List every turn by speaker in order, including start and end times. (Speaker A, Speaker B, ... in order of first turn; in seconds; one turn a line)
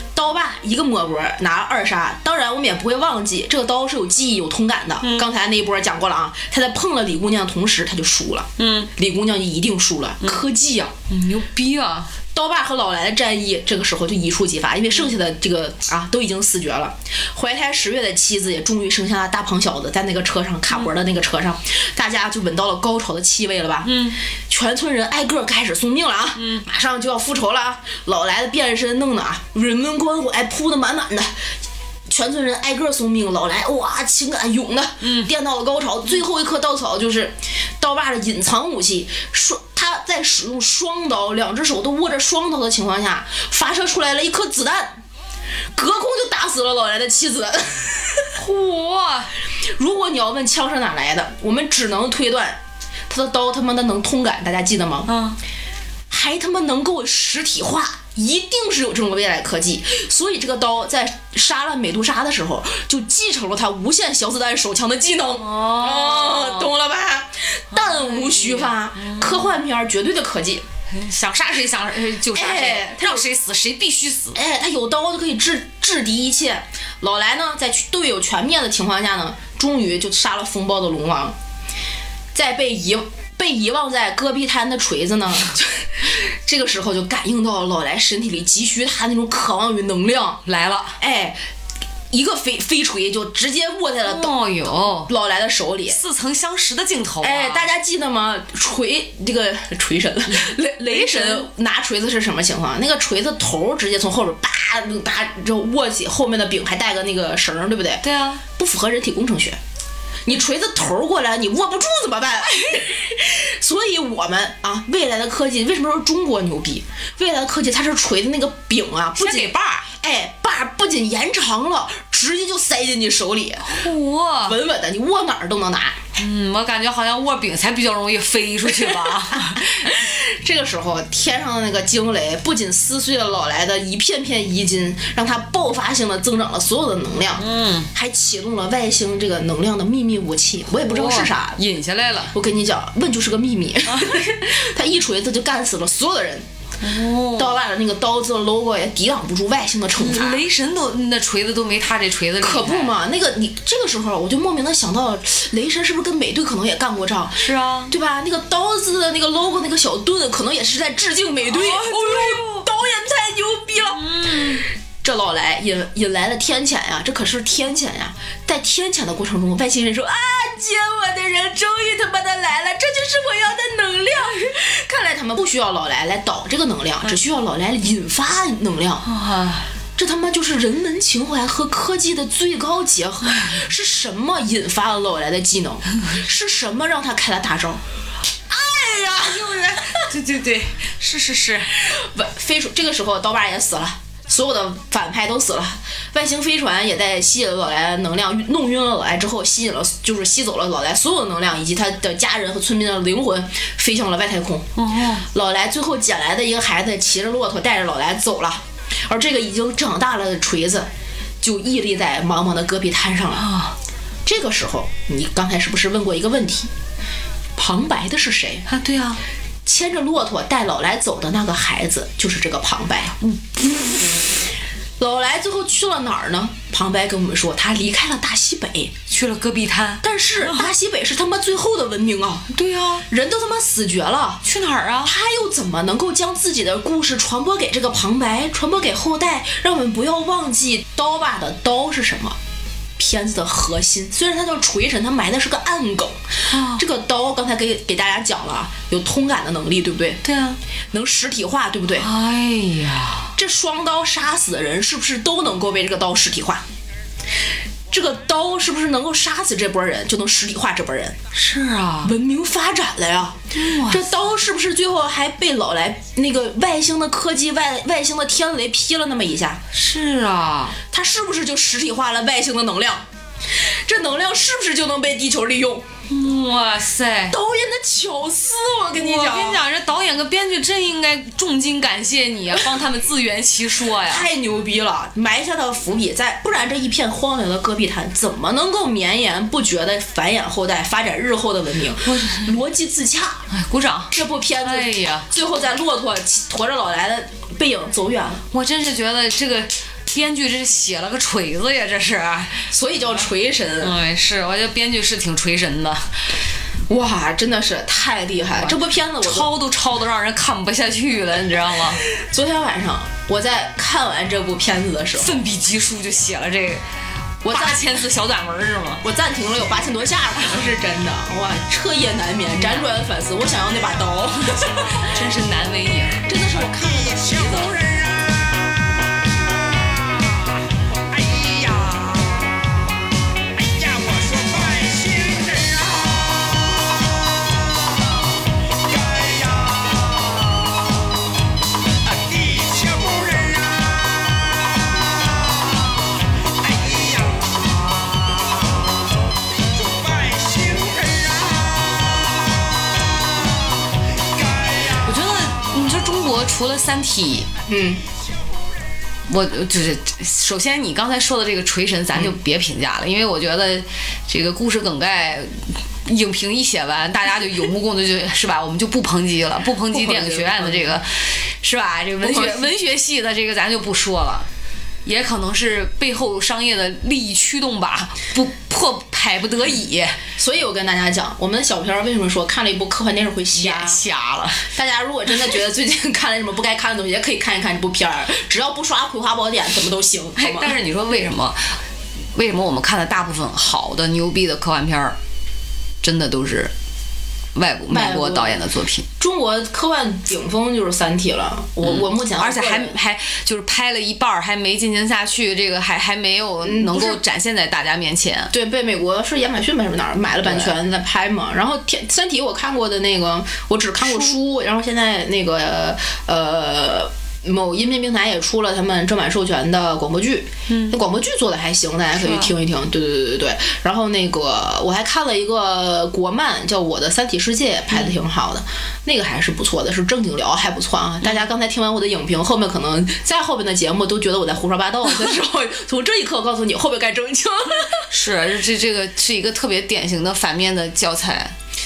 Speaker A: 0.1-10.9
Speaker B: 5.0-5.3
Speaker B: 8.6-8.9
Speaker B: 11.1-12.1
Speaker A: 12.3-31.3
Speaker B: 23.8-24.2
Speaker B: 26.4-26.6
Speaker A: 32.1-45.0
Speaker B: 35.0-35.3
Speaker A: 45.8-48.3
Speaker B: 48.4-49.3
Speaker A: 49.8-55.1
Speaker B: 55.1-55.4
Speaker A: 56.1-70.6
Speaker B: 65.3-66.7
Speaker B: 67.7-69.5
Speaker B: 70.9-74.4
Speaker A: 72.3-73.2
Speaker A: 74.3-81.4
Speaker A: 82.3-90.4
Speaker B: 90.5-91.0
Speaker A: 91.0-91.4
Speaker A: 92.1-94.3
Speaker B: 94.0-95.1
Speaker A: 95.1-96.0
Speaker B: 95.9-97.7
Speaker A: 97.2-108.0
Speaker B: 100.3-101.5
Speaker B: 108.0-108.4
Speaker A: 108.6-109.6
Speaker A: 110.3-123.8
Speaker B: 119.2-119.5
Speaker B: 123.7-124.6
Speaker A: 124.4-126.0
Speaker B: 126.2-129.7
Speaker A: 128.8-141.6
Speaker B: 137.4-137.9
Speaker B: 140.7-142.3
Speaker A: 142.3-146.5
Speaker B: 143.9-144.2
Speaker B: 146.8-147.6
Speaker A: 147.3-150.4
Speaker B: 150.0-152.9
Speaker A: 152.4-164.4
Speaker B: 157.4-157.9
Speaker B: 161.5-162.7
Speaker B: 163.9-164.7
Speaker A: 165.0-179.1
Speaker B: 179.0-179.7
Speaker A: 180.0-187.8
Speaker A: 188.5-190.0
Speaker B: 189.2-191.7
Speaker A: 191.8-204.7
Speaker B: 204.8-205.3
Speaker A: 205.3-210.9
Speaker A: 211.4-213.5
Speaker B: 213.4-213.8
Speaker A: 214.3-216.7
Speaker A: 217.6-218.7
Speaker B: 218.7-219.2
Speaker A: 219.7-223.2
Speaker B: 223.3-224.1
Speaker A: 225.0-228.9
Speaker B: 229.1-230.7
Speaker A: 230.0-232.5
Speaker B: 232.5-233.1
Speaker A: 233.1-234.4
Speaker B: 234.4-235.1
Speaker A: 235.0-242.4
Speaker A: 243.0-250.2
Speaker B: 246.5-246.8
Speaker B: 250.2-250.6
Speaker A: 250.9-252.1
Speaker B: 252.0-253.3
Speaker A: 253.4-256.6
Speaker A: 257.9-261.2
Speaker B: 261.3-262.1
Speaker A: 262.0-269.6
Speaker B: 263.5-264.1
Speaker B: 269.7-270.8
Speaker A: 270.9-275.9
Speaker B: 276.1-277.4
Speaker A: 277.3-279.6
Speaker B: 278.9-284.3
Speaker A: 284.0-293.5
Speaker B: 292.0-292.5
Speaker B: 293.5-295.3
Speaker A: 294.1-298.4
Speaker B: 298.5-302.7
Speaker A: 302.7-303.9
Speaker B: 303.8-306.1
Speaker A: 306.9-309.5
Speaker B: 308.6-312.0
Speaker A: 312.0-315.4
Speaker B: 315.1-316.8
Speaker A: 317.4-317.9
Speaker B: 317.4-319.0
Speaker A: 319.0-325.1
Speaker B: 322.6-322.9
Speaker B: 324.9-326.2
Speaker A: 326.3-327.8
Speaker C: 326.7-328.6
Speaker C: 329.8-330.5
Speaker C: 331.1-332.5
Speaker C: 333.6-336.6
Speaker C: 338.7-341.1
Speaker C: 342.0-348.8
Speaker C: 349.7-352.6
Speaker C: 354.3-355.2
Speaker B: 355.0-357.5
Speaker A: 357.7-358.0
Speaker B: 359.3-374.5
Speaker A: 369.9-371.0
Speaker A: 372.2-372.7
Speaker B: 375.1-380.2
Speaker A: 380.4-384.0
Speaker B: 383.5-384.7
Speaker A: 384.7-390.8
Speaker B: 390.4-391.8
Speaker B: 392.4-395.2
Speaker B: 396.0-396.7
Speaker B: 397.6-399.1
Speaker A: 397.9-398.6
Speaker A: 399.2-402.9
Speaker B: 401.8-408.5
Speaker A: 406.6-407.2
Speaker A: 408.5-438.1
Speaker B: 410.4-410.8
Speaker B: 414.0-414.4
Speaker B: 420.7-420.9
Speaker B: 422.2-422.5
Speaker B: 438.1-441.6